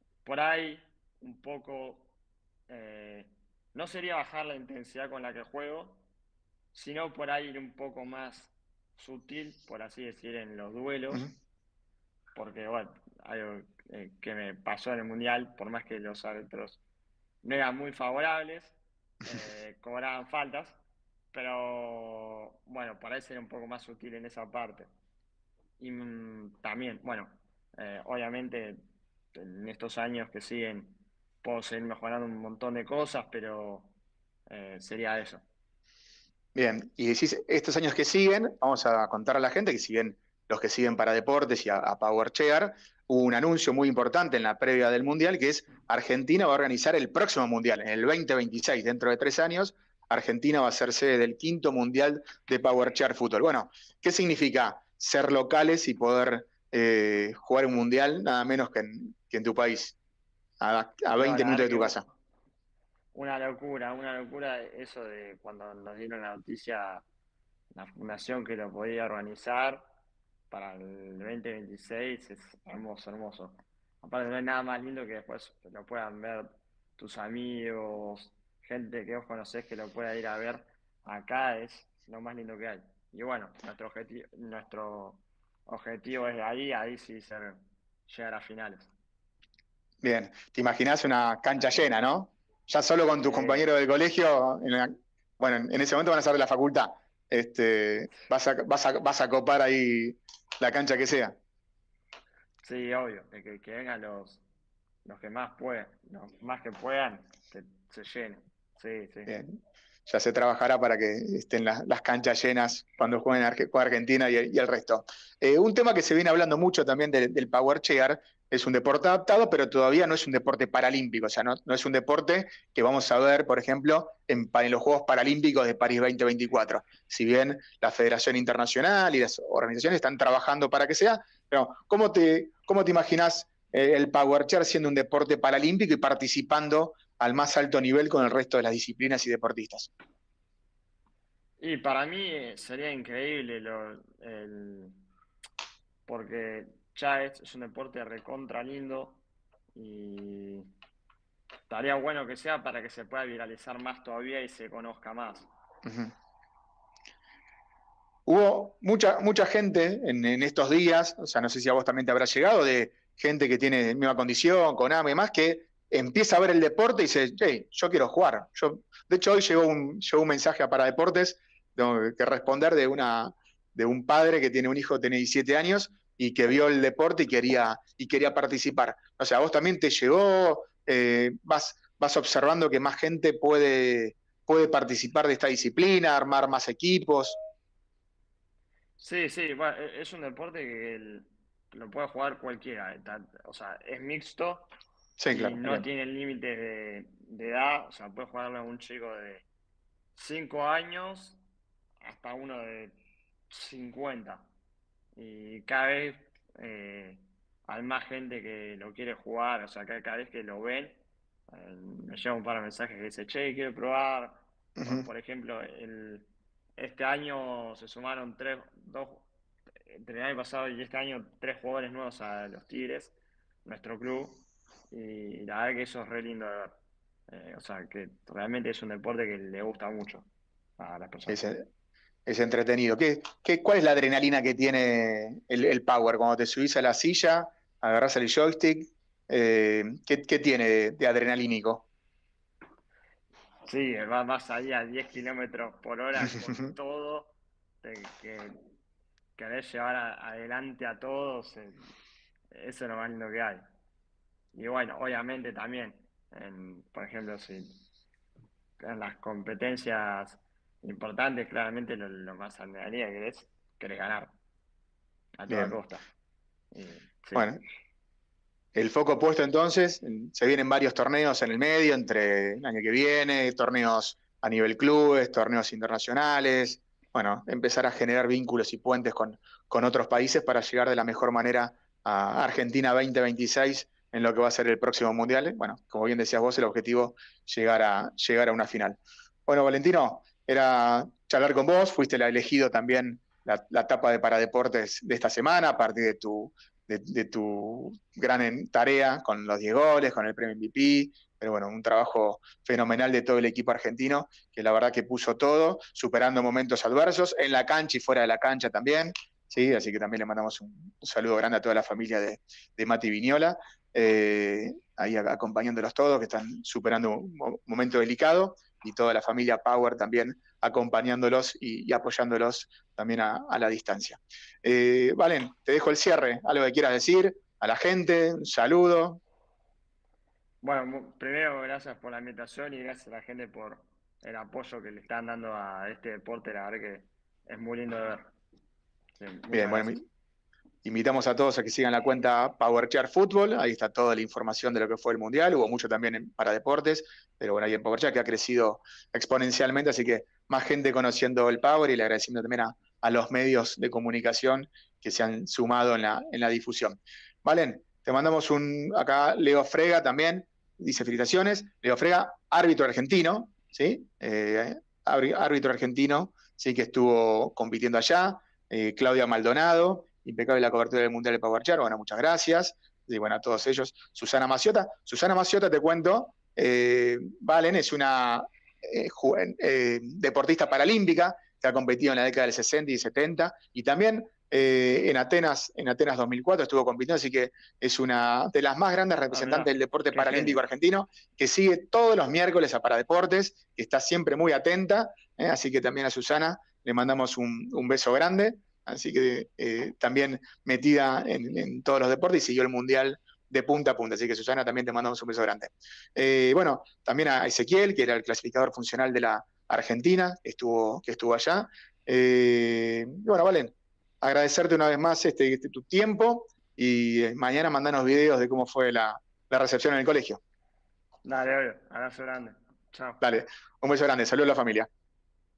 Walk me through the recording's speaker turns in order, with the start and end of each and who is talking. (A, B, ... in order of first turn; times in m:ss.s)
0:00.2-0:02.1 A
0:02.7-0:06.0 A
0:06.7-0:11.2 A
0:12.3-0:16.8 A
0:17.4-0:20.8 A
0:21.3-0:24.9 A
0:25.8-0:28.8 A
0:29.3-0:33.9 A
0:34.5-0:35.4 A
0:36.5-1:00.0 B
1:00.6-1:02.0 B
1:01.1-1:02.1 A
1:03.1-1:07.0 A
1:07.7-1:09.8 A
1:10.5-1:28.9 A
1:30.0-1:41.4 B
1:33.2-1:33.6 A
1:42.6-1:44.4 A
1:45.0-1:49.3 A
1:49.2-1:49.6 B
1:50.1-2:19.9 B
2:21.6-2:25.0 A
2:26.0-2:29.2 A
2:29.7-2:30.7 A
2:31.7-2:35.5 A
2:35.8-2:36.1 B
2:38.2-3:07.4 B
3:09.0-3:14.7 A
3:15.2-3:15.8 B
3:15.3-3:19.4 A
3:20.1-3:21.4 A
3:22.0-3:23.0 A
3:23.5-3:24.4 A
3:25.2-3:31.0 A
3:31.5-3:39.2 A
3:34.8-3:35.1 B
3:39.8-3:43.1 A
3:43.6-3:46.8 A
3:47.3-3:50.3 A
3:50.8-3:51.4 A
3:51.3-3:51.6 B
3:52.2-4:01.8 B
4:03.6-4:08.6 A
4:06.3-4:06.7 B
4:09.4-4:11.9 A
4:12.5-4:13.6 A
4:14.5-4:17.8 A
4:18.8-4:24.3 A
4:25.4-4:26.1 A
4:25.5-4:25.8 B
4:26.7-4:27.6 A
4:27.3-4:27.6 B
4:28.7-5:29.2 B
5:30.6-5:38.3 A
5:39.2-5:40.0 A
5:39.5-5:40.0 B
5:40.8-7:00.4 B
6:29.3-6:30.6 A
7:01.2-7:03.2 A
7:03.2-7:04.9 B